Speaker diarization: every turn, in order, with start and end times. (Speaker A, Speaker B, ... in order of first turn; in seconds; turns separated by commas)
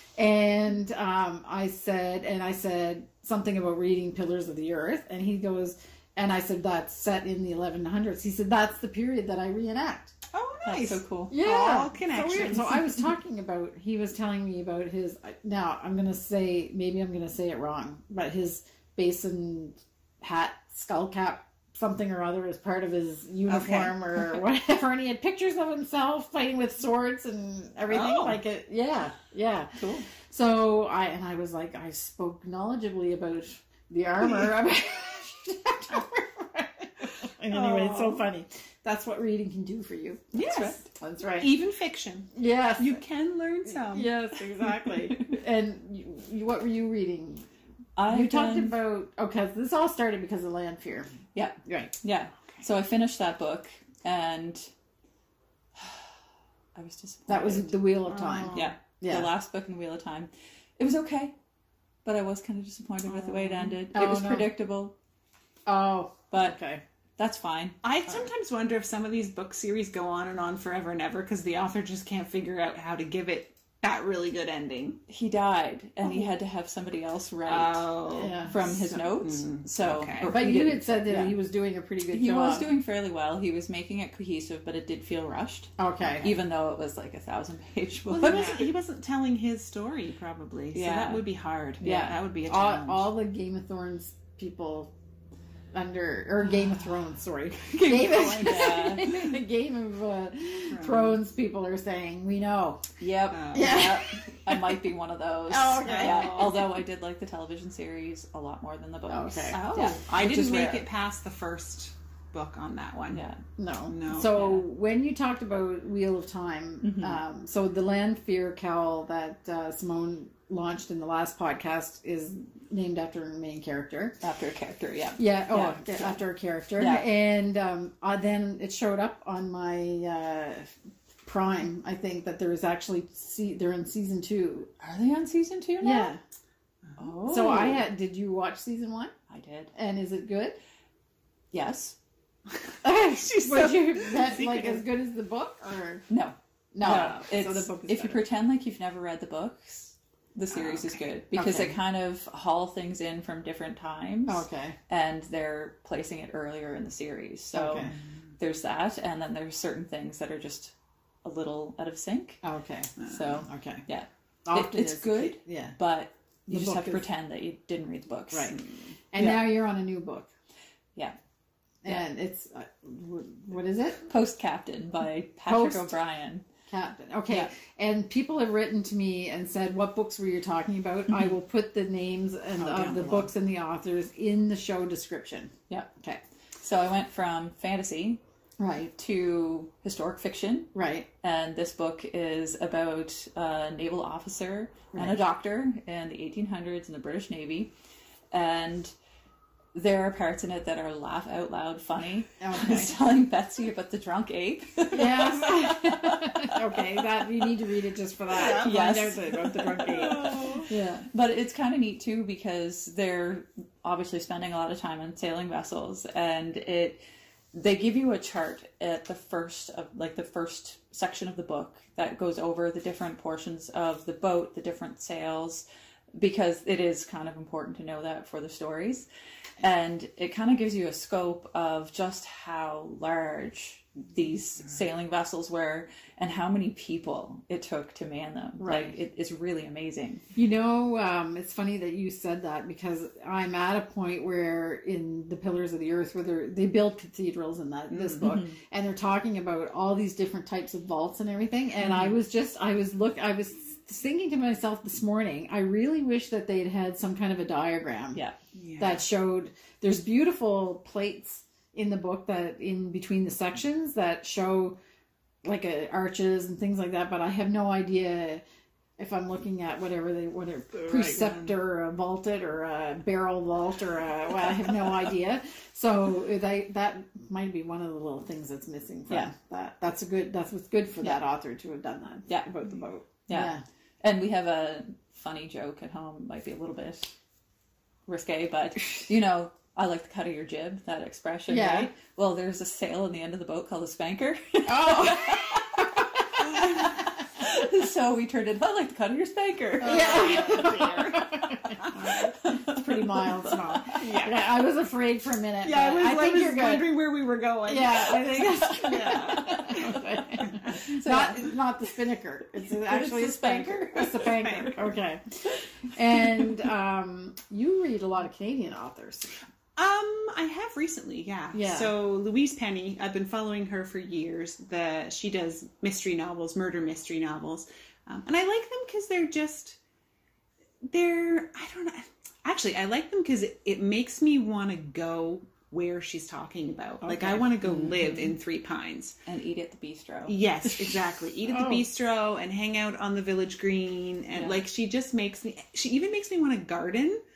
Speaker A: 0.2-10.1, Speaker B: 10.3-12.8, Speaker C: 10.6-11.3, Speaker A: 11.3-29.7, Speaker B: 23.5-23.9, Speaker B: 27.9-28.4, Speaker C: 29.7-30.1, Speaker A: 30.3-41.5, Speaker B: 37.5-38.2, Speaker B: 40.3-40.9, Speaker B: 41.4-44.1, Speaker A: 42.3-43.0, Speaker A: 43.7-47.4, Speaker C: 48.0-48.7, Speaker A: 48.1-51.1, Speaker C: 51.3-54.7, Speaker A: 51.6-51.9, Speaker C: 56.7-57.9, Speaker A: 57.3-59.3, Speaker B: 58.1-58.7, Speaker C: 58.5-61.3, Speaker C: 62.0-64.9, Speaker A: 63.9-64.5, Speaker A: 65.7-66.8, Speaker C: 66.3-66.6, Speaker C: 67.2-67.8, Speaker B: 67.8-75.0, Speaker C: 75.1-81.3, Speaker B: 77.5-80.3, Speaker A: 78.1-78.5, Speaker A: 80.2-82.7, Speaker C: 82.1-88.7, Speaker A: 85.8-86.3, Speaker B: 88.1-93.1, Speaker C: 90.7-91.2, Speaker C: 91.8-92.2, Speaker A: 92.5-94.9, Speaker A: 95.7-102.8, Speaker C: 97.9-99.4, Speaker B: 97.9-98.3, Speaker B: 100.7-101.1, Speaker C: 103.0-110.6, Speaker B: 103.3-103.8, Speaker A: 103.5-104.2, Speaker A: 105.5-106.6, Speaker B: 105.8-106.6, Speaker A: 109.1-110.8, Speaker B: 109.5-113.2, Speaker C: 113.1-113.4, Speaker A: 113.6-124.2, Speaker B: 113.9-114.6, Speaker C: 116.8-117.2, Speaker C: 124.2-126.2, Speaker A: 125.2-130.7, Speaker C: 126.8-127.0, Speaker A: 131.2-134.7, Speaker C: 134.8-136.1, Speaker A: 135.8-136.2, Speaker C: 137.0-137.8, Speaker A: 137.3-139.1, Speaker C: 139.3-139.7, Speaker A: 139.7-140.6, Speaker C: 141.5-141.9, Speaker A: 142.8-146.1, Speaker B: 143.1-144.8, Speaker C: 146.1-160.7, Speaker A: 146.7-148.2, Speaker B: 150.5-151.0, Speaker A: 151.3-151.7, Speaker A: 154.2-154.7, Speaker A: 157.5-157.9, Speaker C: 161.2-162.4, Speaker A: 162.4-163.8, Speaker B: 163.0-163.3, Speaker C: 163.1-168.6, Speaker A: 164.5-165.7, Speaker A: 166.5-167.0, Speaker A: 168.3-168.6, Speaker A: 169.1-170.3, Speaker C: 169.2-169.4, Speaker A: 171.8-174.0, Speaker C: 174.1-176.4, Speaker A: 175.5-175.9, Speaker A: 176.7-186.2, Speaker C: 181.1-181.3, Speaker B: 182.6-183.1, Speaker C: 182.8-183.1, Speaker C: 186.6-188.2, Speaker A: 188.6-188.9, Speaker C: 188.9-197.7, Speaker A: 190.7-191.1, Speaker C: 198.3-198.9, Speaker C: 199.7-206.9, Speaker A: 202.4-202.9, Speaker A: 204.9-211.0, Speaker B: 208.3-209.0, Speaker C: 208.4-217.0, Speaker B: 209.8-210.6, Speaker C: 217.5-229.1, Speaker C: 229.6-240.2, Speaker A: 238.6-238.9, Speaker A: 240.3-258.2, Speaker B: 247.9-248.2, Speaker C: 248.2-248.6, Speaker B: 258.6-259.0, Speaker A: 258.8-264.8, Speaker A: 265.4-268.4, Speaker A: 269.0-283.6, Speaker B: 270.7-271.5, Speaker C: 282.3-287.1, Speaker C: 288.1-300.8, Speaker A: 291.5-291.9, Speaker A: 294.6-296.3, Speaker B: 299.8-301.9, Speaker A: 299.8-306.9, Speaker B: 303.9-304.4, Speaker B: 305.6-310.7, Speaker A: 307.7-315.2, Speaker C: 310.8-311.4, Speaker C: 312.7-314.8, Speaker A: 315.9-319.3, Speaker B: 319.8-329.8, Speaker A: 321.5-321.9, Speaker B: 330.8-339.2, Speaker C: 337.8-338.3, Speaker C: 339.2-340.3, Speaker B: 340.2-347.2, Speaker A: 341.4-341.9